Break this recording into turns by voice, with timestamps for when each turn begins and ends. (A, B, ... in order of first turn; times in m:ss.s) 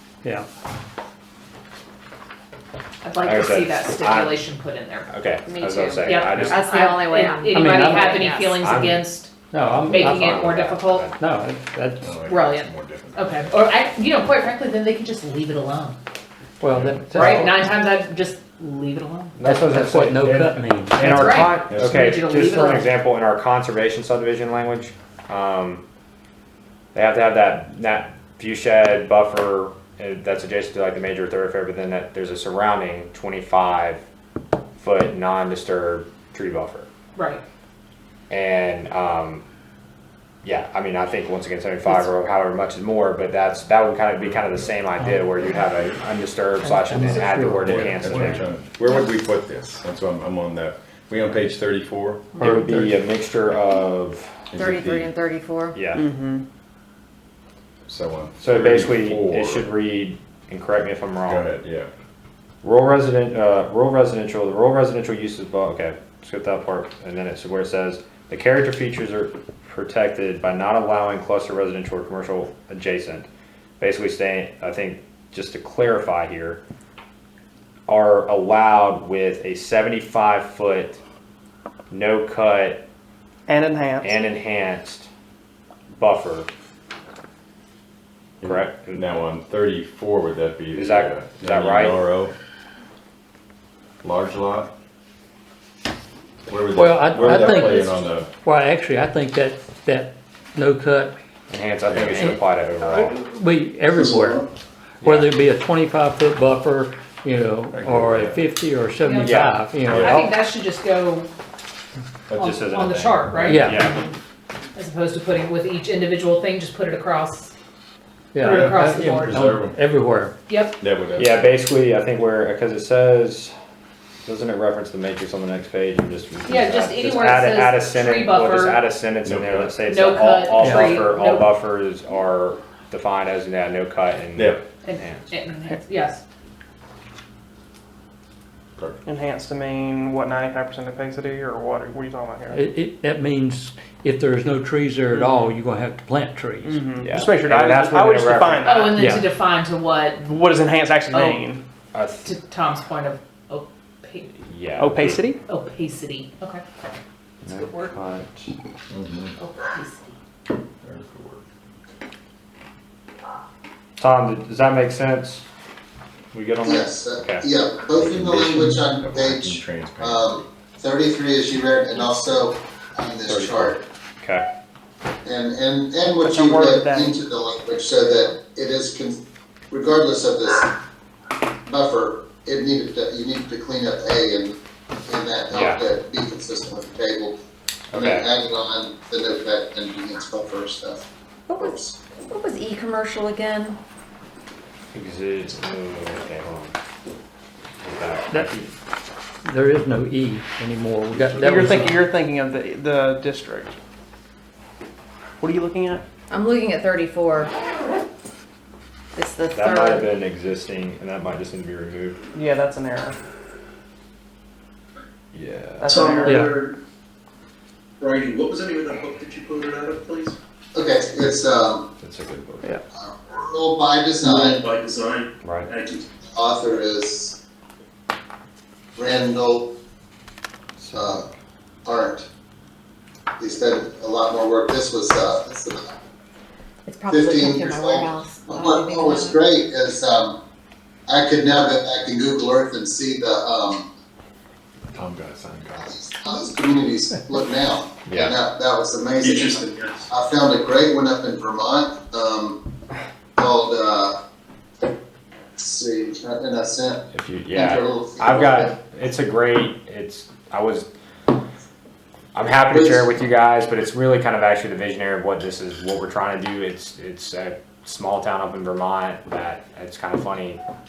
0:03.0-0:05.1 A
0:03.2-0:04.4 B
0:05.1-0:06.8 B
0:05.5-0:08.6 C
0:06.0-0:11.1 A
0:07.5-0:08.2 D
0:08.4-0:09.0 B
0:09.5-0:12.2 D
0:09.8-0:11.2 B
0:12.0-0:13.7 E
0:12.3-0:16.0 A
0:16.6-0:17.6 D
0:16.7-0:17.3 E
0:17.1-0:19.4 A
0:19.4-0:25.8 B
0:19.4-0:21.5 D
0:21.0-0:22.9 A
0:21.7-0:22.1 E
0:26.9-0:34.0 B
0:34.8-0:36.9 B
0:37.2-0:37.4 A
0:38.3-0:39.4 B
0:40.4-0:48.5 B
0:45.0-0:45.4 D
0:46.6-0:48.5 D
0:47.7-0:52.4 E
0:52.4-0:53.0 D
0:52.4-0:54.4 B
0:54.5-0:55.1 E
0:54.6-0:55.8 C
0:55.7-0:56.0 B
0:55.9-0:56.5 F
0:57.9-0:59.7 E
0:58.4-1:01.5 B
1:01.3-1:01.9 E
1:02.6-1:13.3 B
1:13.8-1:16.6 B
1:17.9-1:21.0 B
1:21.9-1:22.8 B
1:23.5-1:24.1 F
1:24.0-1:25.1 B
1:26.0-1:26.5 B
1:28.4-1:32.3 E
1:28.4-1:29.1 B
1:30.7-1:32.0 B
1:34.0-1:34.7 E
1:36.5-1:38.3 E
1:36.7-1:41.2 D
1:41.5-1:43.2 B
1:41.9-1:42.3 E
1:42.1-1:44.4 D
1:43.9-1:44.4 G
1:45.0-1:45.3 B
1:45.0-1:50.4 D
1:47.7-1:48.5 E
1:49.0-1:51.3 A
1:49.2-1:49.6 B
1:49.9-1:50.2 E
1:52.3-1:53.7 E
1:52.3-1:54.2 A
1:52.4-1:54.0 B
1:53.4-1:54.0 D
1:54.8-1:57.5 A
1:58.3-2:00.3 D
1:58.4-1:59.5 A
1:58.4-1:59.9 E
2:00.5-2:00.8 A
2:00.8-2:01.6 E
2:01.2-2:03.5 B
2:04.3-2:15.3 B
2:06.5-2:08.8 A
2:09.2-2:09.8 E
2:09.9-2:11.5 A
2:10.6-2:11.0 D
2:14.4-2:14.6 E
2:14.8-2:16.2 A
2:19.0-2:22.6 F
2:22.5-2:27.0 D
2:25.1-2:25.4 F
2:26.7-2:29.0 F
2:27.0-2:28.8 B
2:28.6-2:30.3 A
2:29.0-2:29.3 D
2:30.2-2:31.6 F
2:31.1-2:31.4 A
2:31.9-2:32.3 B
2:32.2-2:34.4 A
2:34.5-2:35.2 B
2:34.8-2:35.4 F
2:35.5-2:36.6 A
2:37.5-2:38.5 B
2:38.9-2:39.3 E
2:39.4-2:40.2 A
2:40.8-2:41.4 E
2:44.0-2:45.4 B
2:46.3-2:47.4 B
2:46.6-2:53.8 H
2:48.0-2:50.4 E
2:53.3-2:53.7 E
2:55.2-2:59.2 H
2:56.2-2:57.2 F
2:59.7-3:00.7 H
3:01.7-3:04.6 H
3:05.1-3:07.4 H
3:05.5-3:05.8 B
3:07.9-3:08.2 B
3:07.9-3:12.0 H
3:11.5-3:13.8 C
3:14.9-3:16.8 B
3:17.8-3:18.7 B
3:18.3-3:18.6 D
3:19.4-3:22.1 D
3:21.4-3:23.8 F
3:25.4-3:26.0 F
3:26.3-3:27.5 C
3:29.2-3:30.1 C
3:29.5-3:32.2 B
3:32.3-3:33.2 F
3:35.3-3:36.2 B
3:35.9-3:36.8 G
3:36.2-3:36.5 D
3:38.0-3:40.4 G
3:40.8-3:41.9 H
3:42.0-3:42.7 B
3:42.9-3:44.6 H
3:44.2-3:46.1 G
3:45.4-3:45.7 B
3:46.3-3:47.4 H
3:49.0-3:49.7 H
3:50.8-3:51.3 B
3:50.9-3:51.3 H
3:51.8-3:52.3 H
3:53.4-3:55.9 H
3:56.9-3:59.4 C
3:57.1-4:00.4 H
4:01.1-4:03.9 H
4:04.9-4:06.0 E
4:05.8-4:12.6 H
4:08.1-4:08.4 B
4:09.2-4:10.1 G
4:13.4-4:14.2 H
4:15.6-4:18.8 H
4:17.1-4:20.9 B
4:22.4-4:30.6 B
4:22.7-4:23.1 H